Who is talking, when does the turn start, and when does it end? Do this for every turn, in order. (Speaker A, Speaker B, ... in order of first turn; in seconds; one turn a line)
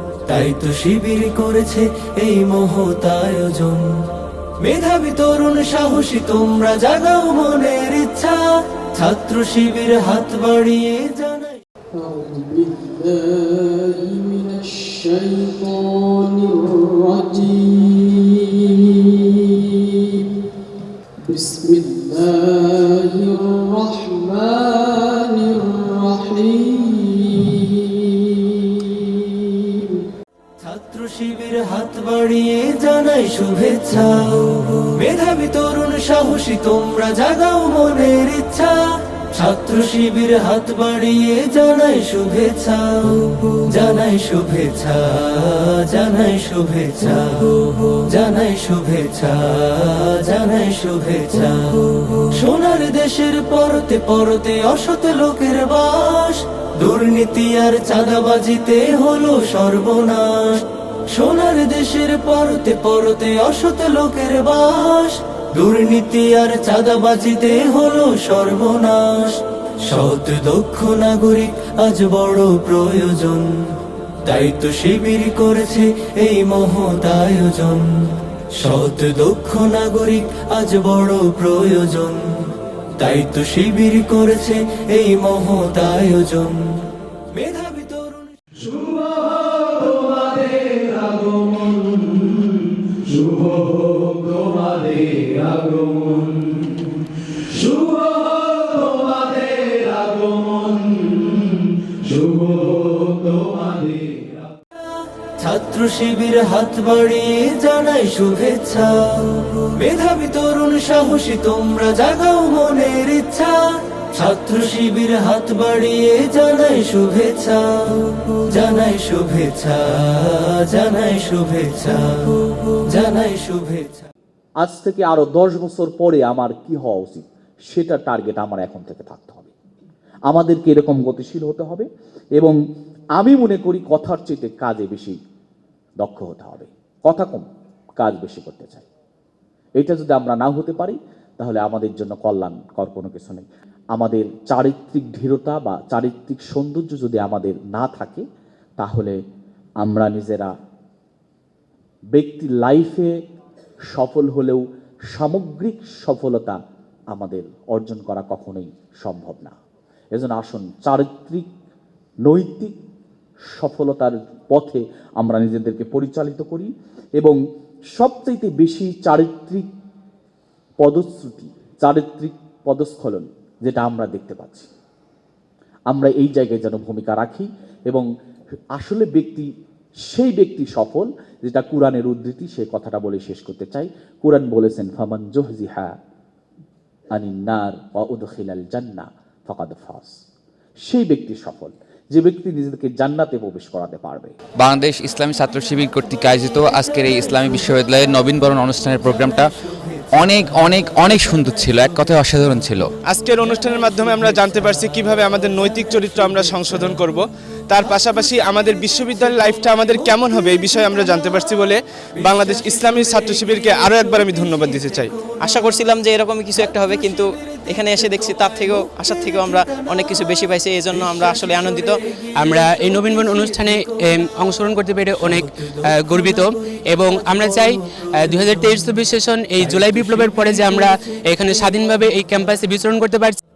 Speaker A: 0.3-4.0
Speaker A: 4.6-11.6
Speaker B: 11.9-20.5
Speaker B: 21.2-30.1
Speaker A: 30.6-73.7
Speaker A: 74.2-88.4
Speaker C: 91.2-92.1
Speaker C: 93.0-96.3
Speaker C: 97.6-101.2
Speaker C: 101.9-104.2
Speaker A: 105.3-124.1
Speaker D: 124.6-129.5
Speaker D: 130.3-132.6
Speaker D: 133.2-135.2
Speaker D: 136.0-137.4
Speaker D: 138.0-138.9
Speaker D: 139.8-148.2
Speaker D: 148.8-149.2
Speaker D: 149.8-150.5
Speaker D: 152.1-153.1
Speaker D: 153.9-156.6
Speaker D: 157.1-159.6
Speaker D: 160.1-161.5
Speaker D: 162.2-162.8
Speaker D: 163.6-167.4
Speaker D: 168.0-169.7
Speaker D: 170.8-174.7
Speaker D: 175.9-178.1
Speaker D: 178.8-179.5
Speaker D: 180.1-185.9
Speaker D: 187.1-190.2
Speaker D: 190.8-194.3
Speaker C: 194.6-199.5
Speaker C: 200.2-202.9
Speaker A: 200.8-201.3
Speaker E: 203.0-215.3
Speaker F: 215.3-222.0
Speaker G: 222.4-233.4